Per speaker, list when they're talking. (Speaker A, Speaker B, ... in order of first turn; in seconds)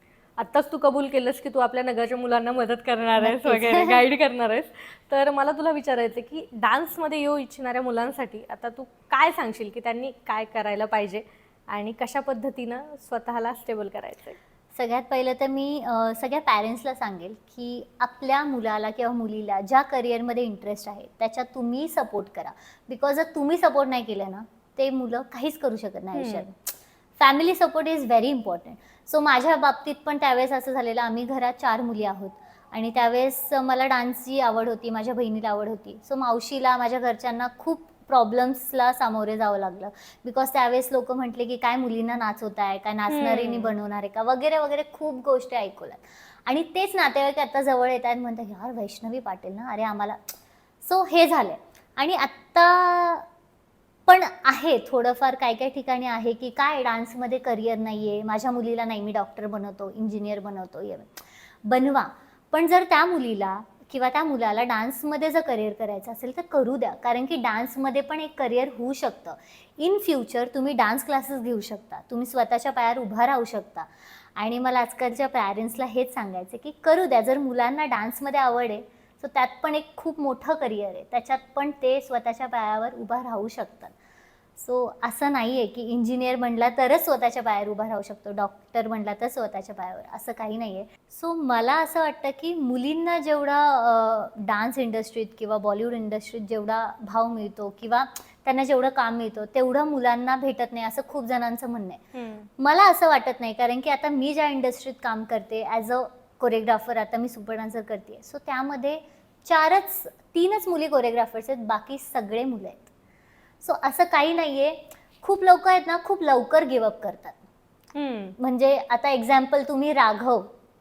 Speaker A: 0.4-14.4, 26.1-26.5, 43.1-43.7, 102.1-102.5, 118.0-118.3
Speaker B: 3.2-4.0, 14.8-53.3, 54.1-83.9, 84.6-102.0, 102.6-112.9, 113.6-117.4, 118.4-120.5